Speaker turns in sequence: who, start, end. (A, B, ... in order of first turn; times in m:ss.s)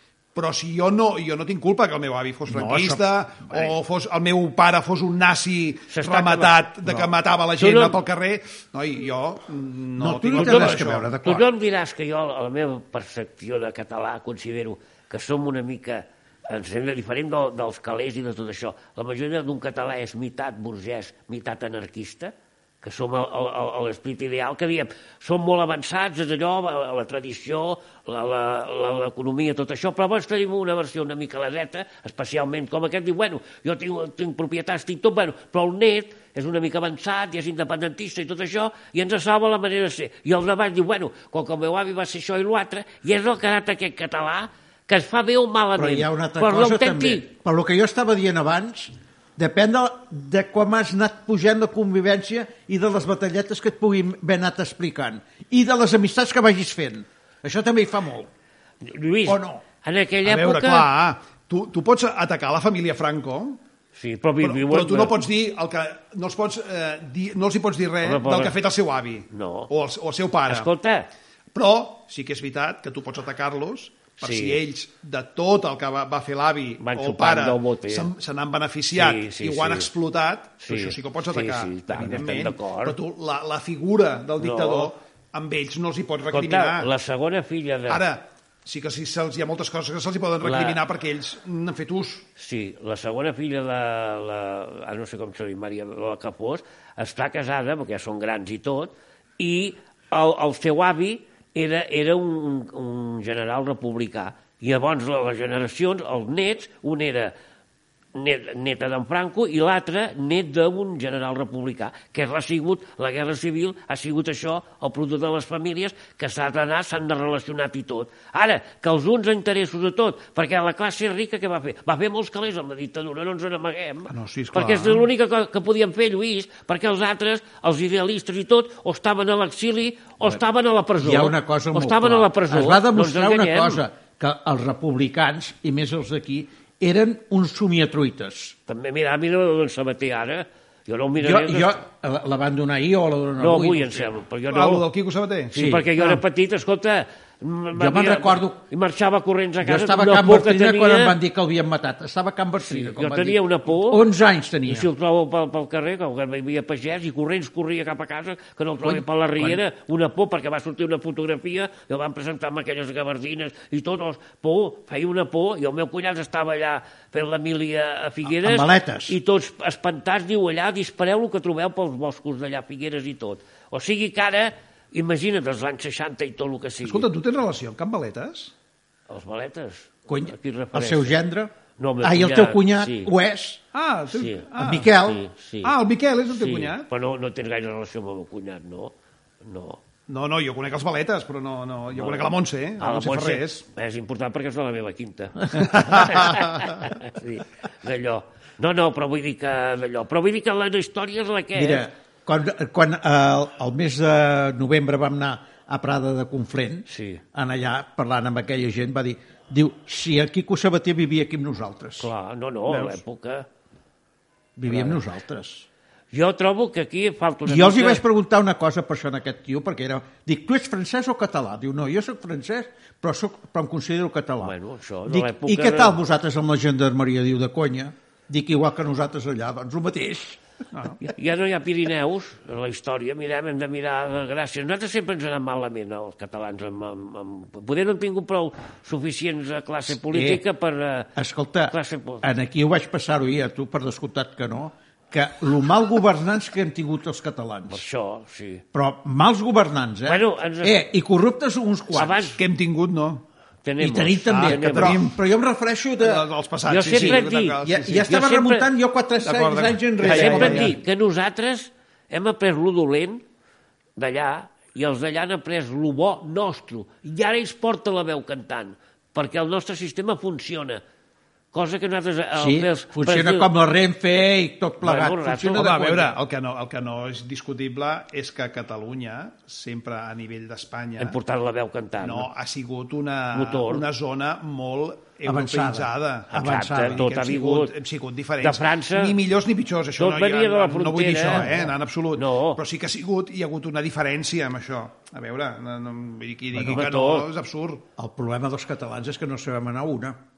0:00.4-0:11.1 A
0:02.5-0:03.0 B
0:05.9-0:07.0 C
0:07.6-0:08.0 C
0:10.0-0:11.5 B
0:10.4-0:47.2 C
0:45.8-0:58.3 B
0:58.8-1:00.9 C
0:59.3-0:59.6 B
1:00.2-1:03.6 A
1:04.0-1:05.2 C
1:04.4-1:10.7 A
1:08.0-1:08.6 C
1:09.3-1:09.7 C
1:10.5-1:11.1 C
1:11.5-1:26.9 A
1:14.2-1:14.6 C
1:16.8-1:18.1 C
1:18.9-1:19.9 C
1:20.6-1:23.0 C
1:24.4-1:24.9 C
1:26.3-1:28.0 C
1:27.9-1:32.3 A
1:30.4-1:30.8 C
1:32.4-1:47.3 C
1:48.2-2:13.8 C
2:04.1-2:05.1 A
2:11.0-2:18.6 B
2:18.7-2:21.8 C
2:21.2-2:24.1 B
2:23.4-2:24.9 C
2:24.5-2:25.6 A
2:25.5-2:31.2 C
2:25.6-2:26.2 B
2:27.8-2:28.6 B
2:29.6-2:34.9 B
2:32.6-2:34.0 C
2:34.7-2:57.1 C
2:38.8-2:39.6 B
2:48.3-2:49.2 B
2:56.8-2:58.5 A
2:59.1-3:01.2 C
3:00.1-3:03.6 B
3:01.8-3:03.1 C
3:03.7-3:04.9 A
3:04.1-3:04.5 C
3:04.6-3:05.2 B
3:05.0-3:05.7 C
3:05.6-3:06.9 A
3:06.3-3:09.8 C
3:10.1-3:13.6 A
3:11.9-3:21.8 C
3:15.6-3:16.4 A
3:21.6-3:32.1 B
3:26.9-3:27.2 C
3:32.0-3:33.5 C
3:32.7-3:33.0 B
3:34.6-3:35.7 B
3:34.7-3:35.0 C
3:36.1-3:38.0 C
3:37.5-3:44.6 B
3:44.4-3:46.0 C
3:45.1-3:50.4 B
3:50.7-3:51.0 A
3:51.0-4:01.1 C
4:00.1-4:00.4 B
4:01.2-4:07.8 B
4:01.7-4:02.3 C
4:07.7-4:08.6 C
4:08.7-4:12.3 B
4:10.1-4:10.8 C
4:11.9-4:12.4 C
4:12.4-4:13.2 A
4:13.6-4:15.0 C
4:13.8-4:16.3 B
4:14.3-4:15.2 A
4:16.0-4:18.1 A
4:16.7-4:18.7 C
4:16.9-4:20.8 B
4:19.2-4:20.8 A
4:20.0-4:23.2 C
4:24.0-4:30.8 C
4:31.5-4:33.5 C
4:32.4-4:36.1 B
4:34.8-4:36.1 C
4:35.5-4:41.2 A
4:41.0-4:42.3 C
4:42.0-4:57.8 A
4:43.3-4:43.8 C
4:45.2-4:47.1 B
4:46.3-4:47.7 C
4:48.4-4:49.2 C
4:50.0-4:52.6 C
4:51.2-4:51.7 B
4:56.6-4:57.3 C
4:58.0-5:00.2 B